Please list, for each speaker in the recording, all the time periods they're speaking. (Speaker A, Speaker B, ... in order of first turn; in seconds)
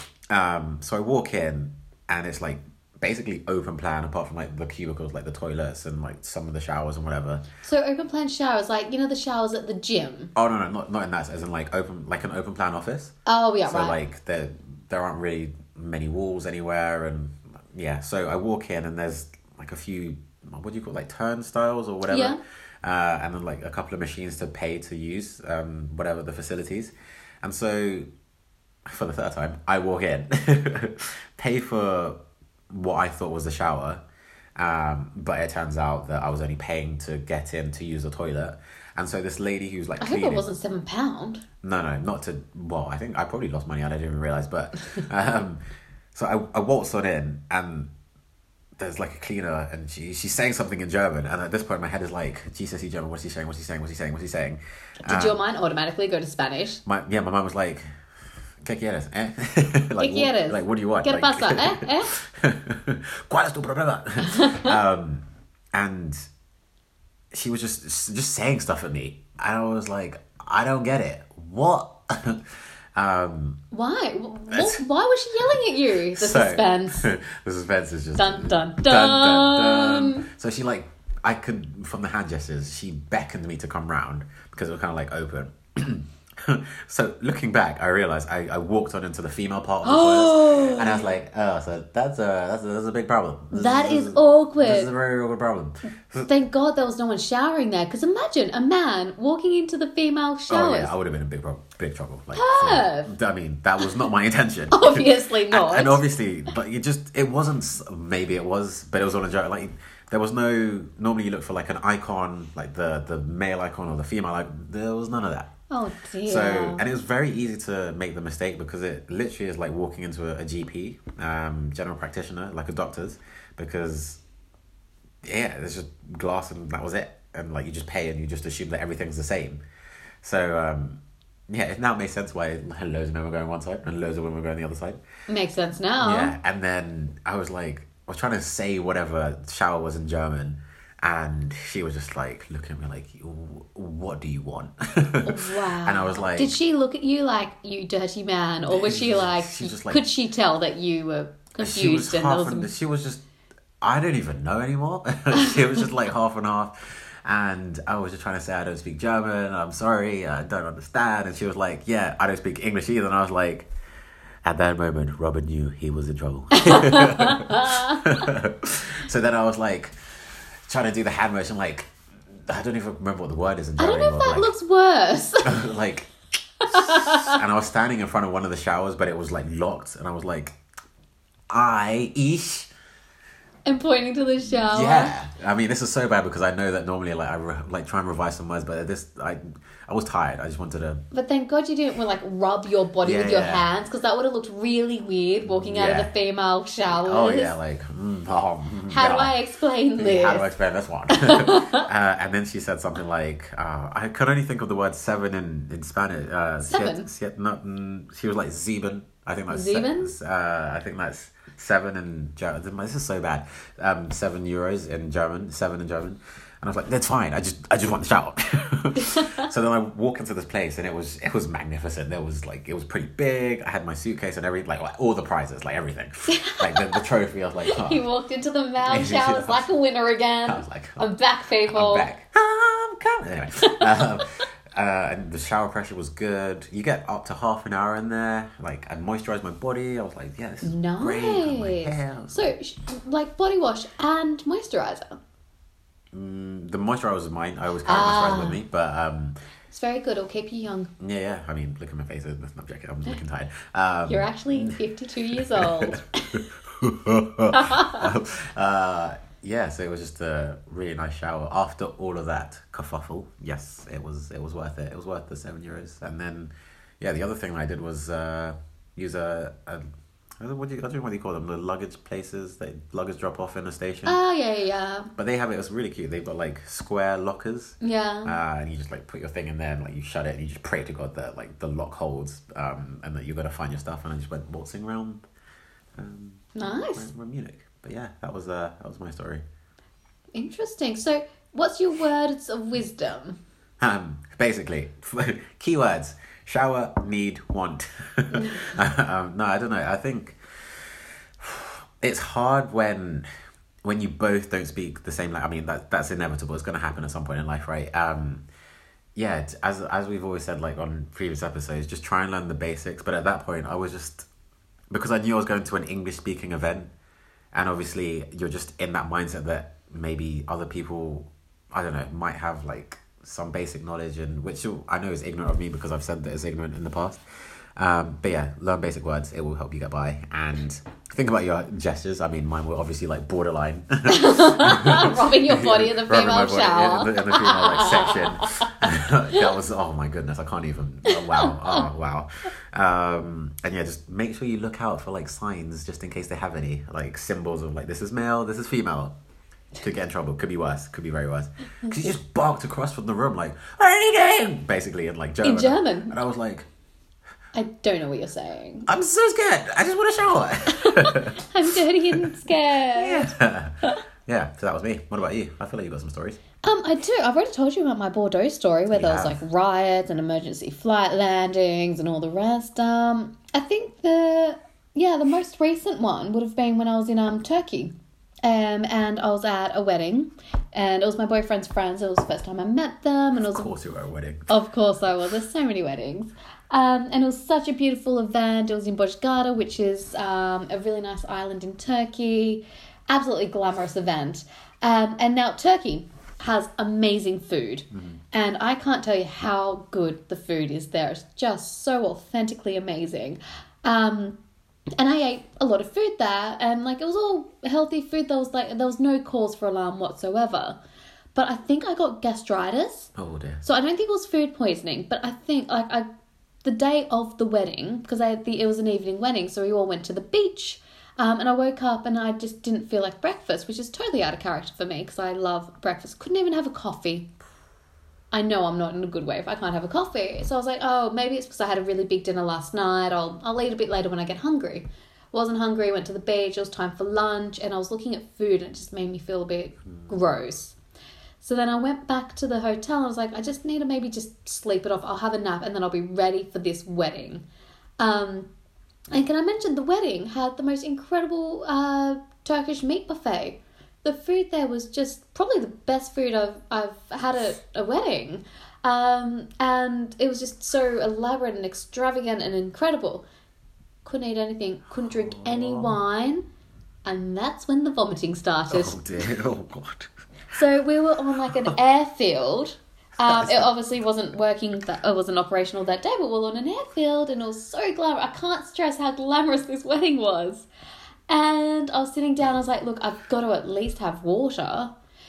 Speaker A: 0.3-7.4, 10.3-13.1, 13.7-28.1, 28.9-32.2, 32.7-34.0, 34.6-40.4, 41.6-45.6, 46.1-47.9, 48.8-55.4, 56.9-57.8, 58.6-65.2, 65.7-66.2, 67.3-72.4, 73.0-73.6, 74.5-74.8, 76.2-96.3, 100.5-115.5, 116.2-124.2, 125.2-129.6, 130.2-135.0, 136.0-146.6, 148.7-150.0, 151.6-153.2, 153.8-156.7, 157.2-163.7, 164.4-170.0, 170.7-171.9, 172.5-174.5, 175.4-176.1, 176.7-180.6, 181.5-182.7, 184.5-191.0, 193.0-193.7, 195.5-196.1, 196.9-199.4, 200.0-228.0, 228.8-229.7, 230.4-231.1, 231.7-242.5, 246.1-249.3, 251.0-254.8, 255.3-269.8, 270.4-274.2, 275.2-285.2, 286.0-289.4, 293.8-300.4, 301.4-303.3, 303.8-308.4, 309.1-314.2, 314.9-316.9, 317.5-327.2, 327.8-349.1, 349.8-356.6, 358.9-361.4, 362.9-363.7, 364.3-366.4, 368.9-369.4, 383.4-384.5, 397.9-398.2, 413.1-413.6, 465.0-466.0, 468.7-470.1, 471.4-471.7, 473.2-473.7
Speaker B: 7.6-10.3, 13.2-14.0, 22.1-22.4, 40.0-41.4, 55.0-56.8, 60.0-62.1, 64.2-64.8, 73.7-77.1, 78.2-80.3, 89.8-91.1, 93.5-94.9, 96.3-100.9, 102.3-103.1, 104.7-106.0, 115.7-116.8, 135.3-136.3, 145.2-152.7, 166.5-168.0, 173.8-175.6, 176.6-177.4, 183.7-185.1, 191.1-197.6, 198.9-200.5, 201.1-201.9, 206.6-207.1, 209.5-210.1, 219.0-219.5, 226.3-227.0, 227.6-232.1, 233.6-234.4, 240.6-245.2, 247.8-248.6, 249.7-250.9, 254.1-256.4, 257.5-258.0, 274.0-275.1, 277.8-278.4, 286.5-287.1, 290.3-293.4, 334.1-338.7, 341.1-341.9, 355.4-356.1, 357.5-358.9, 360.8-364.0, 366.6-383.7, 384.5-404.4, 405.0-410.8, 411.3-413.1, 413.6-416.1, 416.6-427.3, 428.3-440.8, 441.4-447.4, 448.0-448.5, 449.1-463.2, 464.0-466.4, 467.0-469.0, 470.5-480.7, 481.3-484.9